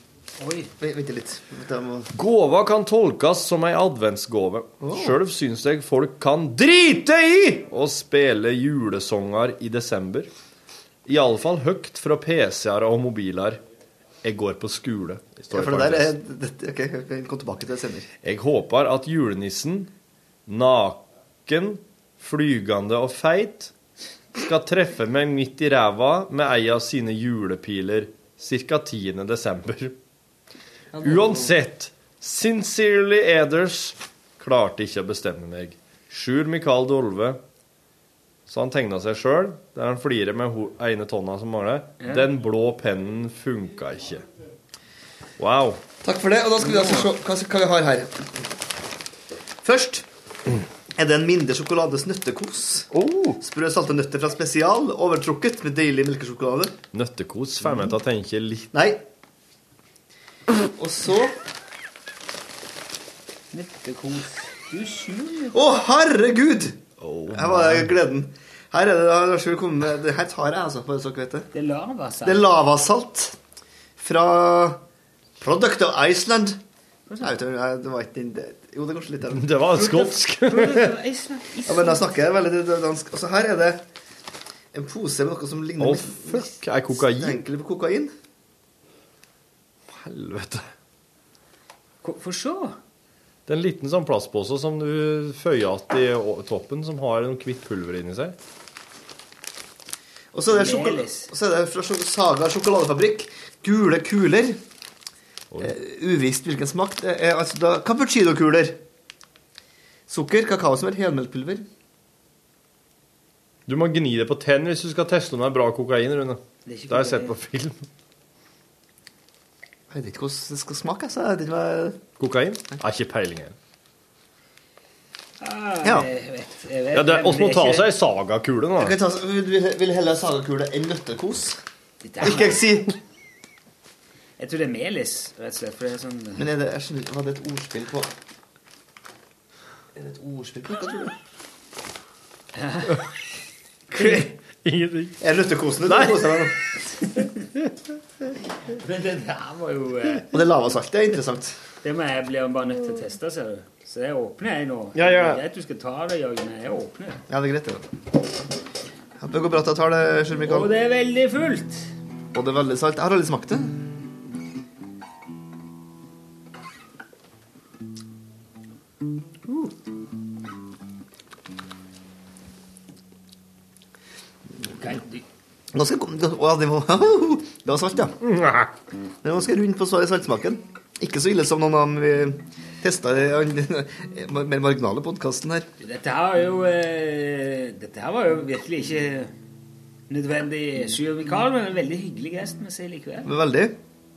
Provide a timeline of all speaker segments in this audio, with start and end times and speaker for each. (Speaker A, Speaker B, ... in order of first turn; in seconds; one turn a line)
Speaker A: 0.4-0.7
Speaker B: 0.8-2.1
Speaker C: 2.1-10.3
Speaker B: 4.8-5.2
Speaker C: 11.1-13.6
Speaker C: 14.2-16.1
Speaker B: 15.5-18.1
Speaker C: 18.2-19.9
Speaker C: 20.5-23.7
Speaker C: 24.4-30.0
Speaker B: 30.9-31.5
Speaker C: 31.0-37.4
Speaker C: 38.5-44.2
Speaker A: 42.0-42.3
Speaker C: 45.4-45.8
Speaker B: 46.0-48.4
Speaker A: 46.6-47.1
Speaker B: 49.6-50.1
Speaker B: 51.0-56.8
Speaker C: 52.9-53.4
Speaker C: 56.9-58.7
Speaker B: 58.7-59.0
Speaker B: 60.6-61.4
Speaker A: 63.5-65.6
Speaker B: 65.5-71.5
Speaker C: 67.0-67.9
Speaker A: 71.5-72.5
Speaker B: 72.2-73.4
Speaker B: 74.0-74.8
Speaker B: 75.4-76.6
Speaker A: 77.1-77.4
Speaker B: 77.2-79.6
Speaker C: 79.3-80.8
Speaker A: 79.7-82.1
Speaker B: 81.7-83.8
Speaker B: 84.7-88.1
Speaker C: 85.8-87.4
Speaker C: 89.9-90.7
Speaker A: 92.0-92.8
Speaker C: 93.5-98.3
Speaker B: 100.3-104.6
Speaker A: 100.5-101.3
Speaker B: 105.6-108.8
Speaker B: 110.1-111.7
Speaker C: 113.7-117.8
Speaker A: 116.7-117.4
Speaker B: 119.9-122.0
Speaker C: 122.2-123.5
Speaker A: 125.4-127.9
Speaker B: 125.8-126.1
Speaker C: 126.9-129.0
Speaker B: 128.8-131.6
Speaker A: 132.0-132.6
Speaker B: 132.2-132.9
Speaker A: 134.4-136.5
Speaker B: 136.4-138.1
Speaker B: 139.9-141.1
Speaker A: 142.6-143.1
Speaker A: 144.0-144.3
Speaker C: 144.0-145.2
Speaker B: 145.2-146.5
Speaker C: 145.9-146.3
Speaker A: 148.6-150.3
Speaker B: 150.3-151.6
Speaker A: 151.8-157.2
Speaker C: 154.9-155.4
Speaker B: 157.3-157.8
Speaker B: 159.2-160.7
Speaker A: 160.4-161.9
Speaker B: 162.3-163.8
Speaker A: 174.8-175.2
Speaker B: 175.7-178.2
Speaker C: 178.2-178.7
Speaker B: 179.2-185.7
Speaker A: 185.8-189.3
Speaker A: 190.1-193.3
Speaker B: 193.2-193.8